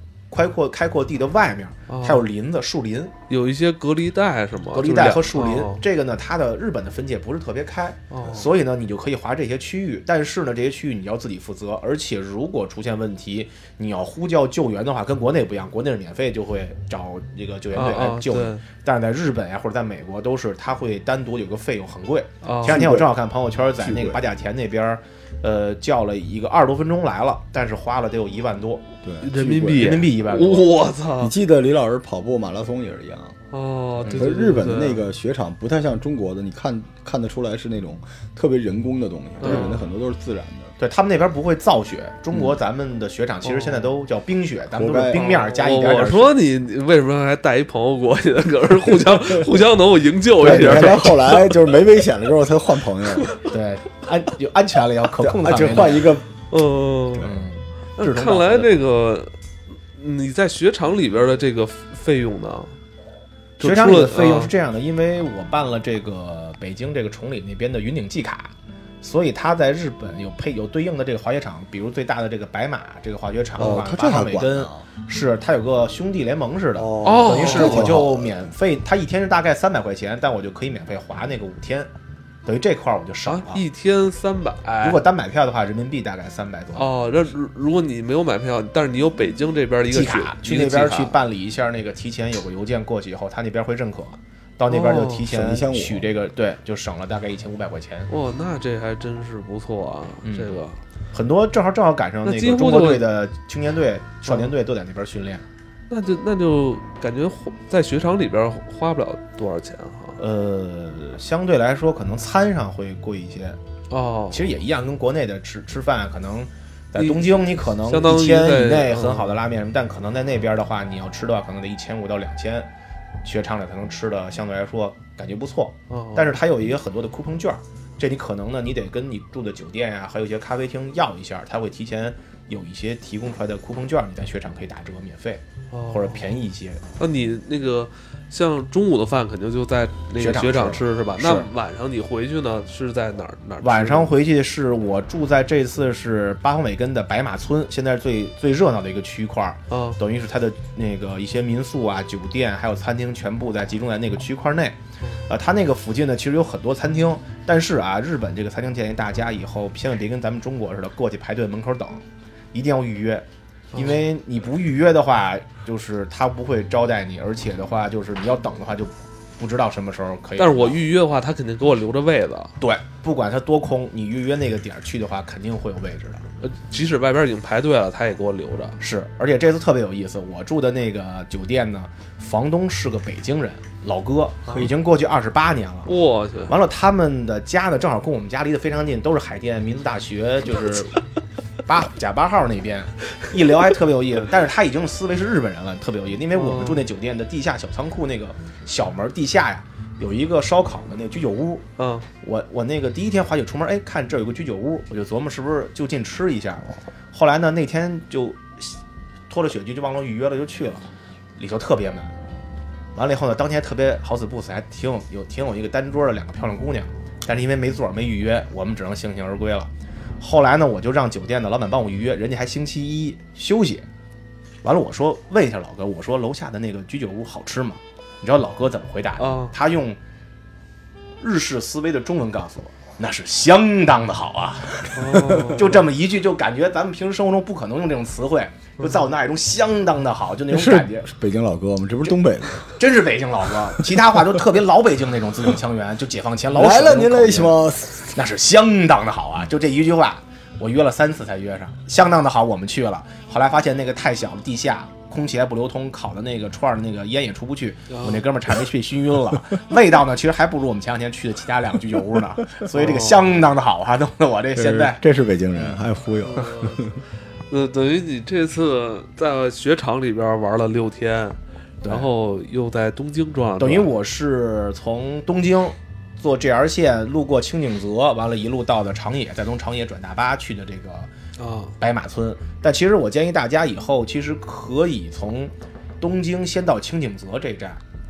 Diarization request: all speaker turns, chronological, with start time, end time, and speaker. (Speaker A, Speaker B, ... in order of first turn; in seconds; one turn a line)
Speaker A: 0.3-3.1
Speaker B: 1.9-2.3
Speaker B: 3.3-5.8
Speaker A: 4.7-30.7
Speaker B: 8.1-8.5
Speaker B: 17.7-18.6
Speaker B: 22.4-22.9
Speaker C: 22.6-23.1
Speaker C: 23.8-24.2
Speaker C: 29.0-29.3
Speaker B: 29.2-31.3
Speaker C: 31.2-33.4
Speaker B: 33.5-35.0
Speaker C: 34.0-40.7
Speaker A: 39.4-39.7
Speaker B: 39.4-39.9
Speaker A: 40.8-46.4
Speaker B: 43.4-43.9
Speaker C: 44.7-45.2
Speaker B: 45.1-51.8
Speaker C: 48.9-49.5
Speaker C: 50.4-53.4
Speaker A: 50.4-51.0
Speaker B: 53.1-53.4
Speaker A: 53.4-56.1
Speaker C: 55.2-56.3
Speaker B: 56.5-57.3
Speaker A: 57.2-58.8
Speaker B: 58.0-59.3
Speaker B: 59.9-62.7
Speaker B: 63.6-64.5
Speaker A: 63.6-81.9
Speaker C: 73.6-74.9
Speaker B: 73.6-73.8
Speaker C: 76.7-78.3
Speaker B: 77.0-78.0
Speaker A: 82.5-83.6
Speaker B: 83.2-85.0
Speaker A: 84.8-87.1
Speaker B: 86.7-91.2
Speaker A: 89.9-98.1
Speaker B: 94.7-95.2
Speaker C: 95.2-96.1
Speaker B: 98.1-100.8
Speaker A: 100.2-100.6
Speaker A: 101.1-105.4
Speaker B: 102.2-103.1
Speaker B: 104.3-104.5
Speaker B: 105.9-110.2
Speaker A: 110.2-113.6
Speaker B: 113.9-114.5
Speaker A: 114.3-122.7
Speaker B: 117.0-119.4
Speaker A: 123.2-136.8
Speaker B: 125.9-126.4
Speaker B: 135.7-136.4
Speaker B: 137.0-144.2
Speaker A: 140.2-141.5
Speaker A: 143.6-170.8
Speaker B: 149.7-150.0
Speaker B: 163.7-164.1
Speaker B: 170.4-172.5
Speaker A: 172.6-176.3
Speaker B: 176.4-178.8
Speaker A: 178.8-185.9
Speaker B: 185.8-186.5
Speaker A: 186.5-191.0
Speaker A: 191.7-201.6
Speaker B: 196.3-196.9
Speaker B: 201.8-202.1
Speaker A: 202.2-208.8
Speaker A: 209.3-212.1
Speaker A: 212.9-223.9
Speaker A: 224.6-230.0
Speaker B: 229.2-229.5
Speaker A: 231.2-241.1
Speaker B: 234.9-235.8
Speaker B: 238.8-239.0
Speaker C: 240.5-242.8
Speaker A: 242.8-247.6
Speaker C: 246.5-248.2
Speaker A: 248.1-265.0
Speaker B: 257.9-258.2
Speaker B: 262.7-263.4
Speaker C: 264.5-267.0
Speaker B: 266.2-266.8
Speaker B: 267.5-273.9
Speaker A: 271.8-272.1
Speaker A: 273.6-281.1
Speaker B: 281.4-281.7
Speaker A: 281.8-287.8